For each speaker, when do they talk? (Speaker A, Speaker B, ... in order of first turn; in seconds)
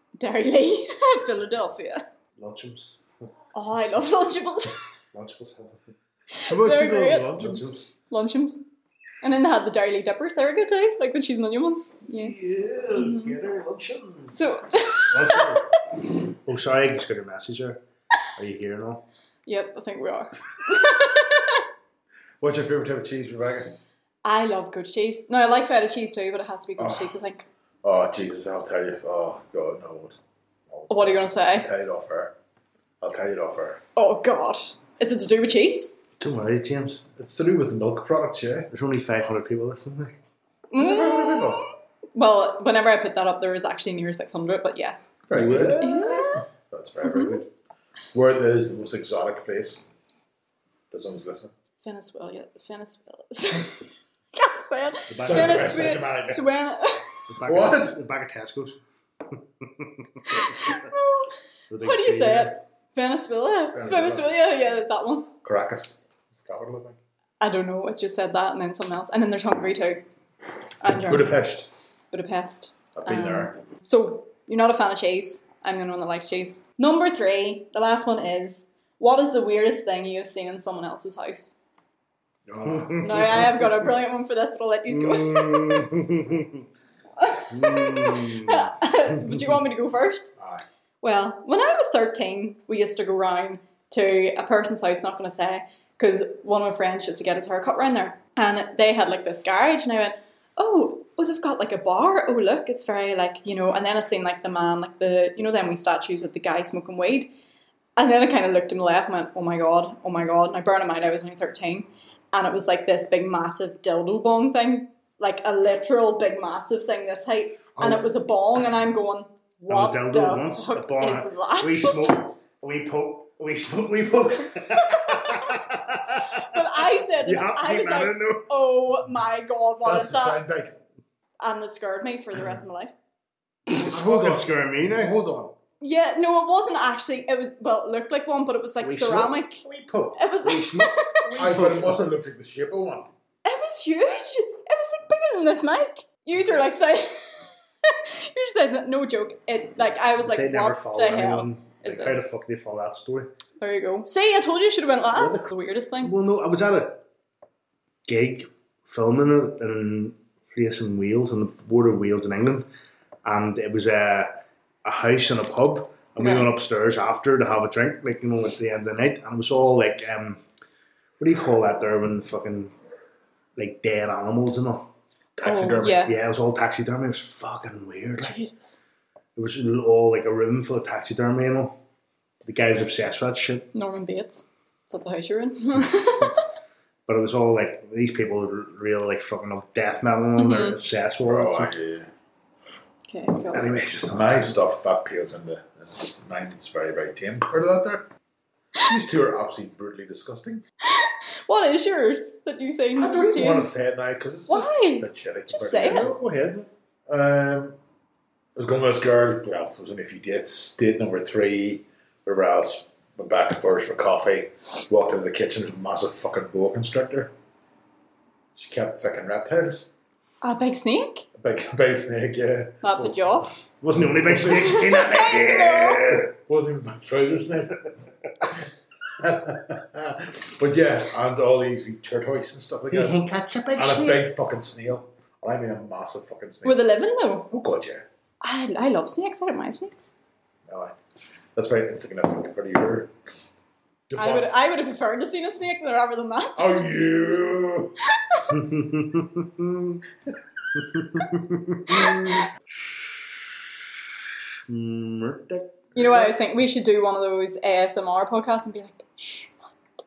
Speaker A: 0.2-2.0, 3.5-4.8, 6.3-7.3, 8.1-8.6, 9.2-12.3, 12.9-13.3, 14.3-15.6, 19.4-21.6, 24.2-27.4, 30.9-31.7, 34.0-35.9, 40.7-45.0, 45.8-46.5, 47.0-47.4, 51.8-57.3, 60.3-65.3, 67.4-70.0, 70.8-71.4, 72.1-81.5, 83.0-85.9, 87.2-90.3, 91.0-107.3, 108.0-122.2, 124.6-125.5, 126.2-130.4, 131.4-132.9, 135.8-139.6, 140.2-141.4, 143.4-152.3, 153.6-156.1, 166.2-166.5, 175.4-176.1, 178.2-178.8, 183.7-186.4, 190.4-190.8, 193.1-193.7, 200.8-203.7, 204.5-206.1, 220.4-221.3, 222.8-223.5, 224.6-226.2, 236.6-237.5, 238.4-240.0, 244.2-246.8, 248.1-248.6, 255.9-259.6
Speaker B: 2.4-3.0, 5.1-5.8, 7.3-7.9, 12.2-14.4, 15.1-15.7, 16.3-17.8, 18.3-19.0, 36.2-37.1, 38.7-40.1, 45.3-46.3, 55.1-56.1, 57.3-60.8, 61.7-62.6, 82.6-83.7, 84.9-86.6, 87.5-88.7, 119.7-128.5, 133.7-135.1, 138.8-142.0, 150.2-153.3, 155.1-157.0, 158.1-162.7, 163.2-170.4, 171.2-172.7, 173.6-174.9, 175.4-178.4, 179.3-181.7, 182.4-183.7, 187.1-191.7, 193.5-194.6, 205.8-206.7, 223.8-226.3, 232.9-234.2, 248.5-250.0, 250.7-252.5, 254.7-256.3
Speaker C: 6.5-7.8, 22.4-23.8, 26.8-27.1, 27.8-30.2, 30.7-32.3, 33.0-33.8, 37.2-38.7, 40.8-41.6, 45.3-47.5, 48.1-49.8, 50.9-51.5, 55.2-56.4, 57.4-58.0, 63.7-64.3, 65.4-67.0, 70.9-71.7, 72.9-73.5, 82.5-83.5, 90.4-90.6, 117.7-118.1, 129.8-130.8, 133.7-135.5, 141.3-143.1, 175.4-176.0, 191.2-192.1, 194.1-198.1, 198.8-200.6, 202.9-206.1, 207.1-207.8, 208.6-217.3, 218.5-219.9, 221.4-223.1, 223.9-224.8, 226.3-227.8, 229.2-236.8, 237.5-238.1, 240.7-240.9, 241.5-243.1, 244.1-244.5, 246.6-247.9